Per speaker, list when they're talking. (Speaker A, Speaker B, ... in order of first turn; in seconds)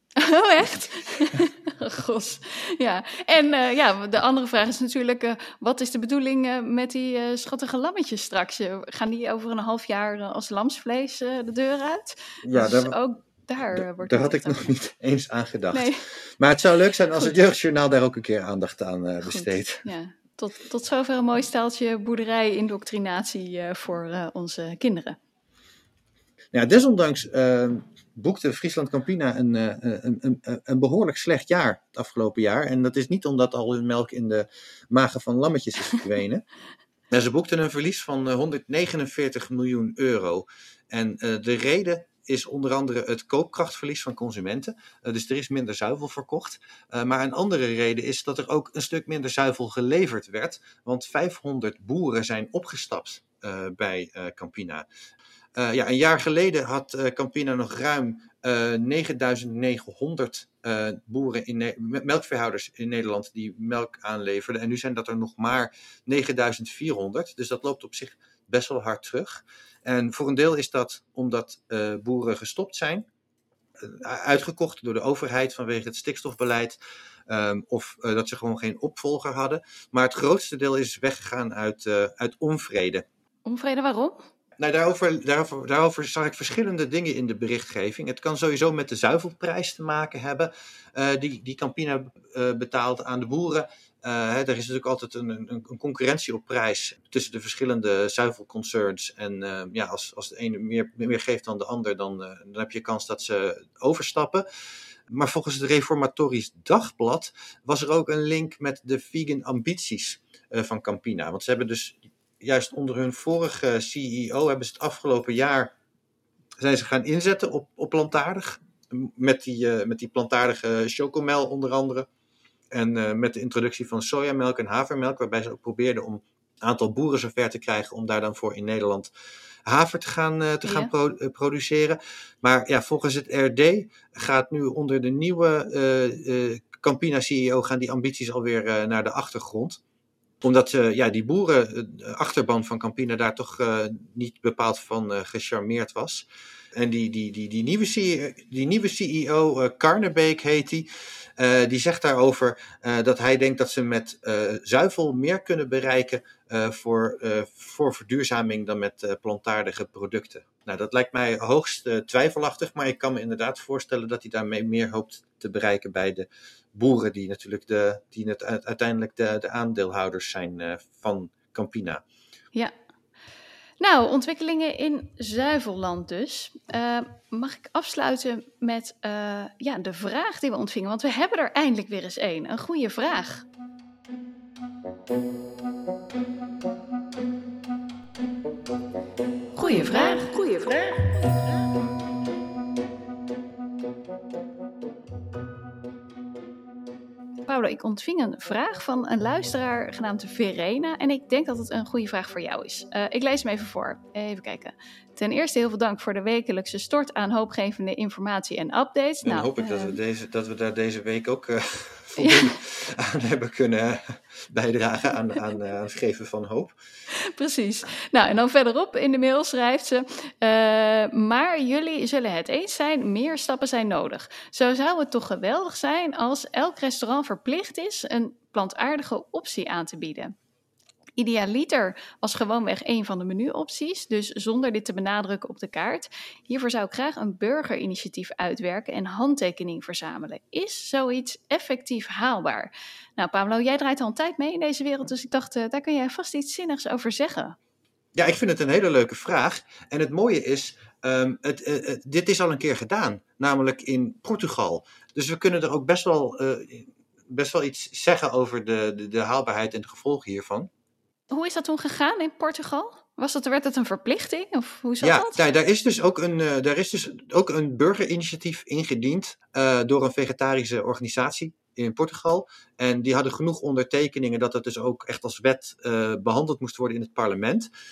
Speaker A: 0.2-14.7, 15.7-16.0, 19.2-25.2, 83.5-84.2, 130.6-130.9, 173.8-183.5, 189.6-191.3, 197.5-210.0, 212.2-212.6, 217.3-230.3, 231.2-247.6, 261.3-265.4
Speaker B: 12.4-13.0, 13.7-19.9, 26.5-36.4, 37.1-54.9, 55.6-73.1, 73.8-83.0, 84.6-104.5, 105.1-115.7, 116.6-122.1, 122.7-129.1, 129.7-139.8, 140.4-172.0, 209.2-216.8, 248.2-260.7, 265.0-277.7